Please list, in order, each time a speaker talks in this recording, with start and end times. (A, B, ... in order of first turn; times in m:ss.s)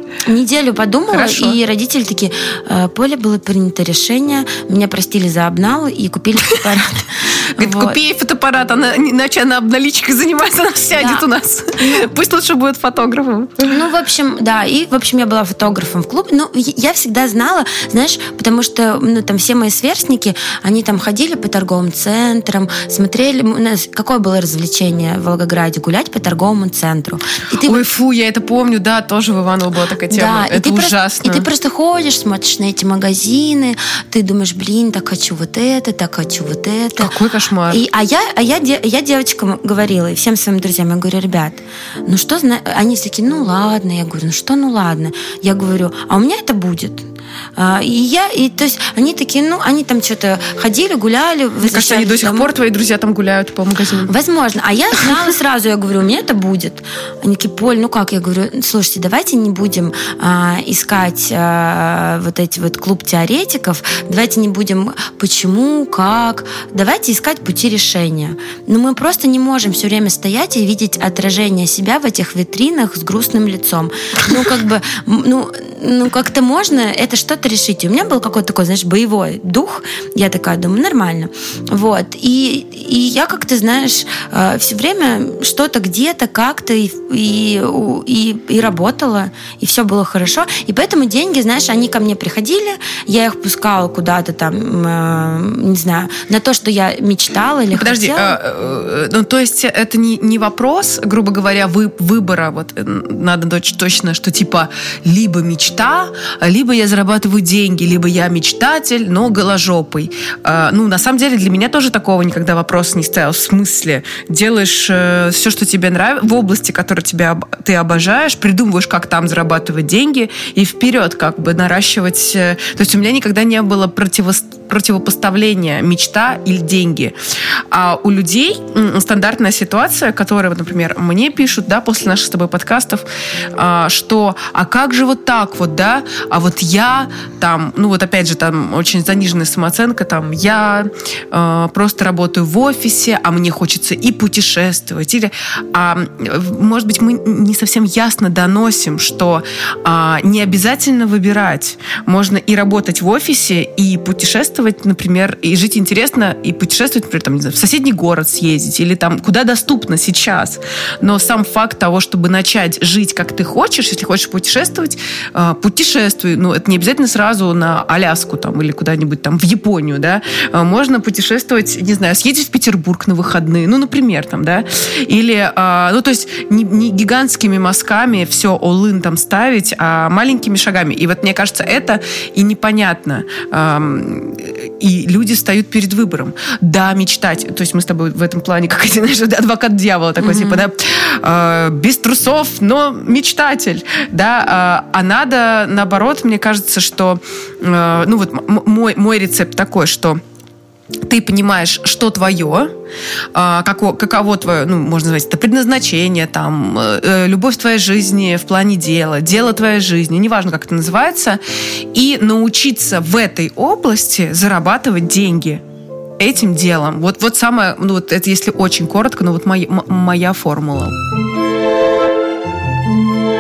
0:00.3-0:08.0 A
0:01.1-0:01.6 B
0:07.6-0:13.8 B
0:11.0-0:11.3 A
0:11.8-0:12.1 A
0:13.7-0:27.8 A
0:27.6-0:31.5 B
0:30.1-0:37.2 A
0:37.0-0:37.8 B
0:37.7-0:52.5 A
0:51.6-0:54.1 B
0:54.1-1:38.4 A
1:37.7-2:07.2 B
2:07.7-3:20.2 B
3:10.2-3:10.7 A
3:21.0-3:22.7 B
3:23.3-3:31.4 B
3:31.9-3:35.6 B
3:36.2-3:41.0 B